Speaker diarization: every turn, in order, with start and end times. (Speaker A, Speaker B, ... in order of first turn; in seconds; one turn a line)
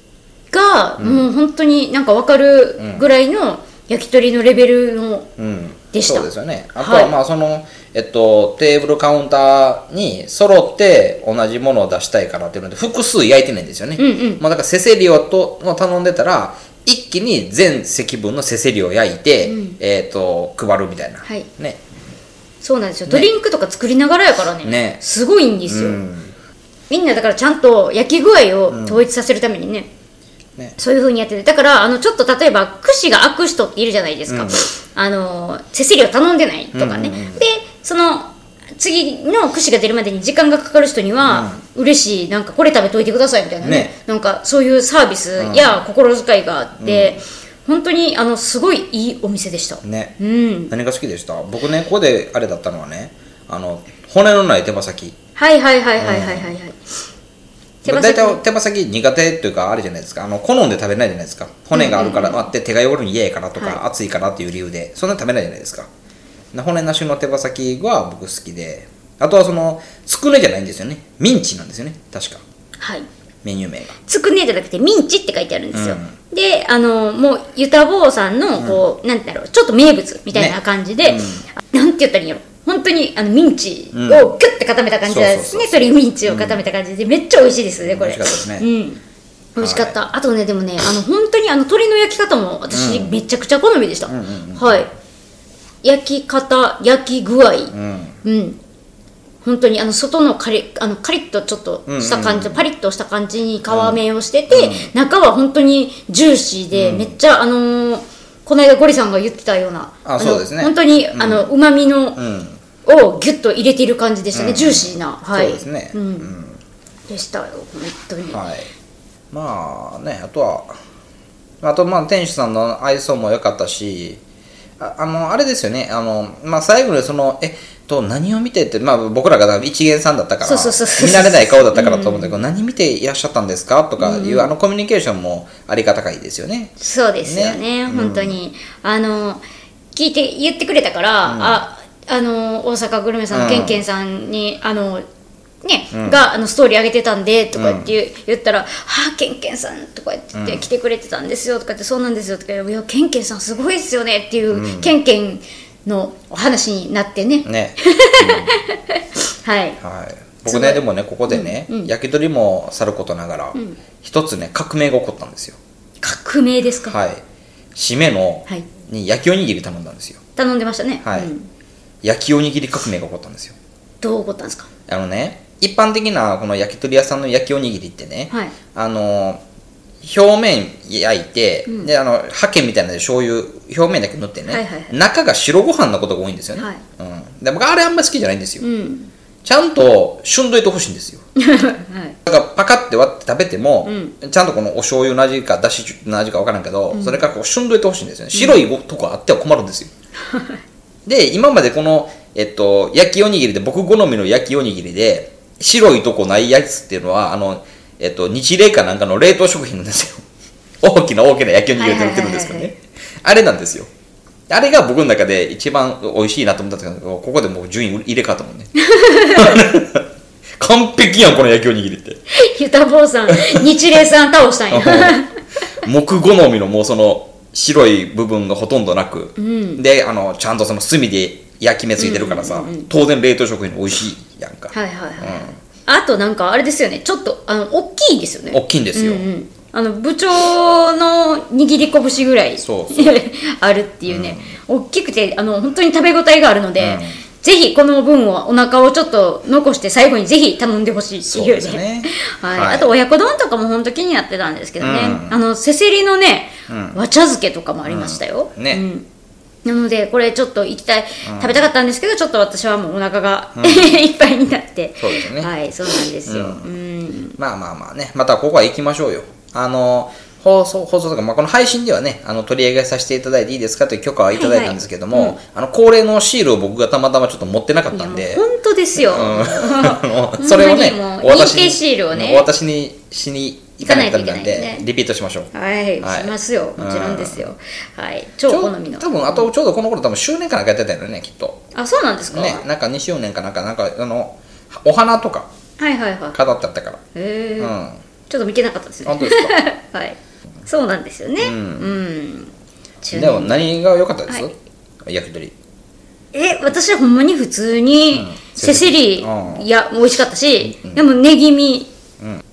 Speaker A: 0.5-5.3
Speaker B: 1.0-1.3
Speaker B: 2.8-3.0
Speaker B: 5.4-21.8
Speaker A: 5.9-7.1
Speaker A: 14.0-14.4
Speaker A: 19.4-19.8
Speaker A: 22.6-26.0
Speaker B: 24.6-25.0
Speaker B: 25.7-26.3
Speaker A: 26.9-29.9
Speaker B: 28.7-29.0
Speaker A: 30.8-50.7
Speaker B: 34.3-34.6
Speaker B: 36.7-37.4
Speaker B: 41.2-41.6
Speaker B: 43.6-43.9
Speaker B: 45.4-45.8
Speaker B: 46.8-47.2
Speaker B: 49.8-50.1
Speaker B: 50.7-55.2
Speaker A: 55.4-56.8
Speaker B: 56.0-56.5
Speaker A: 57.8-58.4
Speaker B: 57.9-65.9
Speaker A: 61.7-62.5
Speaker A: 63.6-63.8
Speaker B: 66.5-72.4
Speaker A: 72.8-73.1
Speaker B: 73.4-74.0
Speaker A: 74.0-89.0
Speaker B: 75.7-76.2
Speaker B: 80.3-81.5
Speaker B: 83.9-84.3
Speaker B: 85.1-86.6
Speaker B: 87.8-88.7
Speaker A: 89.6-94.9
Speaker B: 89.6-90.0
Speaker B: 92.7-93.1
Speaker B: 94.1-94.8
Speaker A: 95.8-98.6
Speaker B: 97.7-98.2
Speaker A: 99.4-112.2
Speaker B: 101.9-102.6
Speaker B: 103.7-104.9
Speaker B: 106.7-107.2
Speaker B: 110.0-111.5
Speaker B: 112.2-112.6
Speaker A: 112.8-116.3
Speaker B: 114.3-116.6
Speaker A: 117.1-118.4
Speaker B: 118.3-118.7
Speaker B: 119.3-120.8
Speaker B: 121.6-124.2
Speaker B: 124.8-138.4
Speaker A: 130.4-132.4
Speaker A: 134.0-134.5
Speaker A: 136.8-139.4
Speaker A: 139.9-145.0
Speaker B: 141.2-141.6
Speaker B: 143.3-143.8
Speaker A: 145.6-159.8
Speaker B: 145.9-146.2
Speaker B: 147.6-147.9
Speaker B: 150.3-150.7
Speaker B: 154.5-154.9
Speaker B: 157.4-158.6
Speaker B: 159.8-165.6
Speaker A: 160.5-161.9
Speaker A: 166.0-167.0
Speaker B: 166.9-167.2
Speaker B: 167.8-170.2
Speaker A: 170.4-171.5
Speaker B: 171.0-171.3
Speaker B: 172.0-173.6
Speaker A: 174.0-174.7
Speaker B: 174.9-179.4
Speaker B: 180.0-188.7
Speaker A: 184.5-184.9
Speaker A: 186.6-186.8
Speaker A: 188.6-189.1
Speaker B: 189.4-191.2
Speaker A: 191.4-192.2
Speaker B: 192.3-199.9
Speaker A: 193.8-194.1
Speaker A: 196.9-197.2
Speaker A: 198.3-198.6
Speaker A: 200.3-200.6
Speaker B: 201.1-210.2
Speaker B: 210.8-213.9
Speaker A: 211.8-212.7
Speaker B: 214.5-218.7
Speaker A: 218.8-219.6
Speaker B: 219.2-220.0
Speaker B: 220.6-222.2
Speaker A: 222.3-225.4
Speaker B: 223.3-223.7
Speaker B: 224.7-225.3
Speaker B: 225.8-235.6
Speaker A: 229.4-229.8
Speaker A: 232.0-232.9
Speaker A: 234.7-259.1
Speaker B: 238.5-239.3
Speaker B: 242.6-243.2
Speaker B: 244.1-244.6
Speaker B: 246.8-247.2
Speaker B: 251.2-252.9
Speaker B: 254.8-255.4
Speaker B: 256.7-257.0
Speaker B: 257.9-258.8
Speaker A: 259.6-267.4
Speaker B: 261.2-261.7
Speaker B: 263.6-264.0
Speaker B: 265.0-265.5
Speaker B: 266.2-266.7
Speaker B: 267.4-278.4
Speaker A: 274.3-275.4
Speaker A: 277.9-282.5
Speaker B: 279.0-287.5
Speaker A: 283.8-284.9
Speaker A: 285.5-289.5
Speaker B: 288.5-291.6
Speaker A: 291.8-292.6
Speaker B: 292.3-295.5
Speaker A: 295.8-296.4
Speaker B: 296.3-297.0
Speaker A: 297.1-297.7
Speaker B: 297.6-298.0
Speaker A: 298.3-303.7
Speaker B: 299.1-299.6
Speaker B: 301.4-301.9
Speaker B: 303.1-304.5
Speaker B: 305.1-305.6
Speaker A: 306.3-311.9
Speaker B: 308.1-309.6
Speaker B: 310.6-311.1